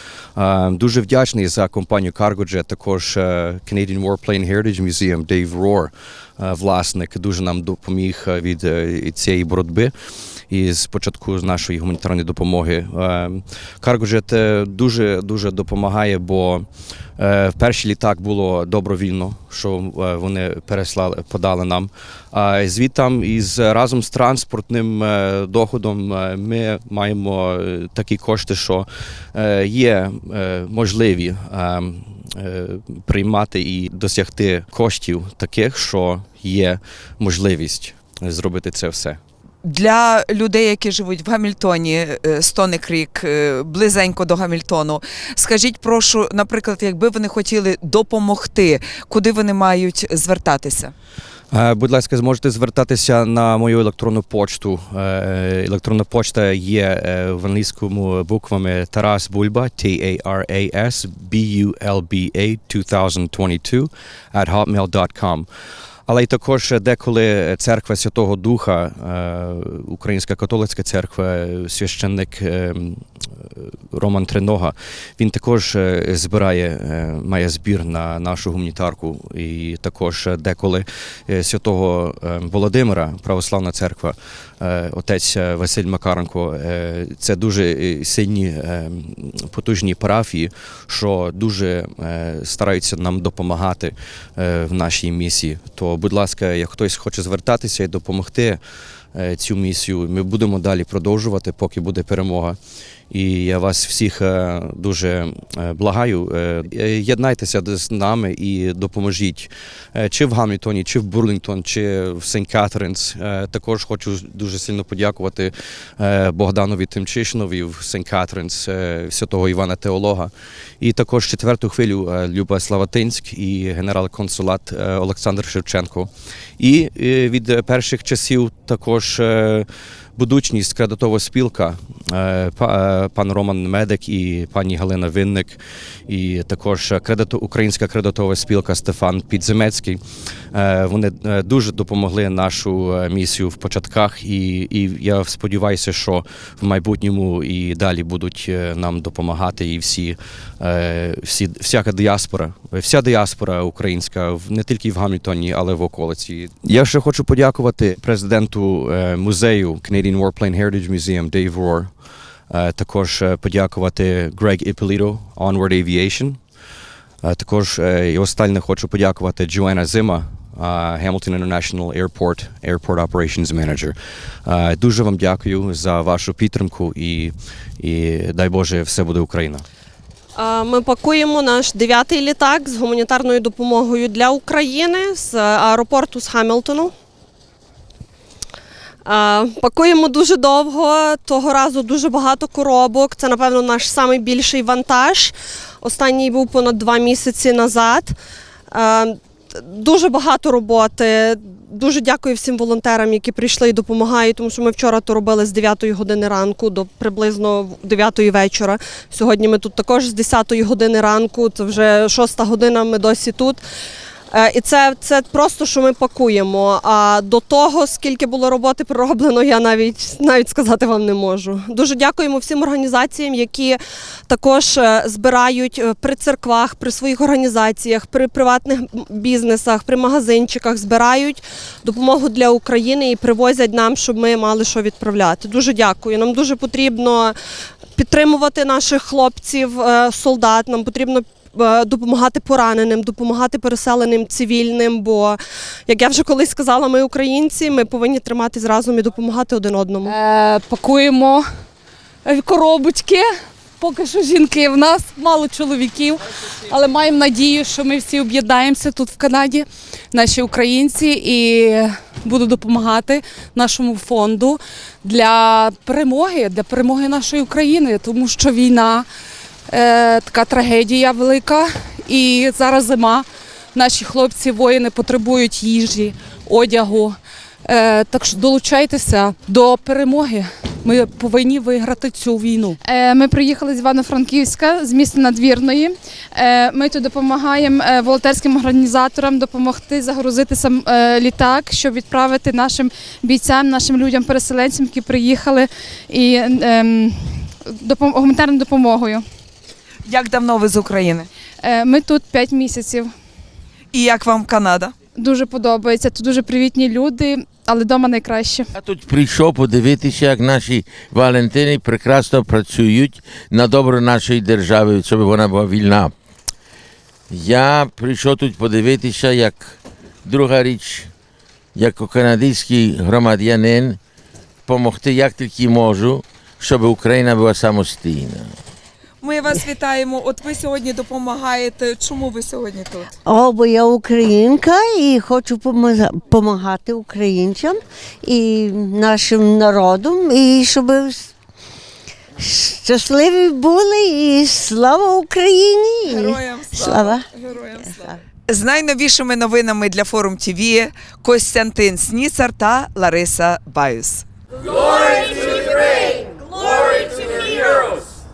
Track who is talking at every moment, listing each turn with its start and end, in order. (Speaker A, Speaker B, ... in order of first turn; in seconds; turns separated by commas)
Speaker A: 0.3-9.9, Speaker A: 10.5-16.7, Speaker A: 17.2-39.2, Speaker B: 39.6-50.9, Speaker A: 51.5-65.5, Speaker A: 66.1-73.0, Speaker A: 73.6-98.6, Speaker A: 99.2-102.6, Speaker A: 103.1-140.0, Speaker A: 140.5-161.9, Speaker A: 162.5-166.4, Speaker A: 167.2-179.6, Speaker C: 180.3-186.9, Speaker C: 189.1-198.2, Speaker C: 198.7-213.6, Speaker C: 214.3-237.3, Speaker C: 238.0-250.2, Speaker D: 250.0-251.4, Speaker D: 252.2-253.2, Speaker D: 253.8-269.1, Speaker D: 269.7-282.8, Speaker E: 282.9-297.1, Speaker E: 297.8-299.2, Speaker B: 300.1-301.3, Speaker E: 301.6-303.1, Speaker B: 303.9-304.9, Speaker E: 305.2-308.6, Speaker F: 308.8-316.1, Speaker F: 317.3-321.1, Speaker F: 321.8-324.0, Speaker F: 324.6-328.5, Speaker B: 329.2-333.1, Speaker G: 333.2-341.3, Speaker G: 342.4-347.2, Speaker B: 346.1-354.2, Speaker F: 354.9-358.1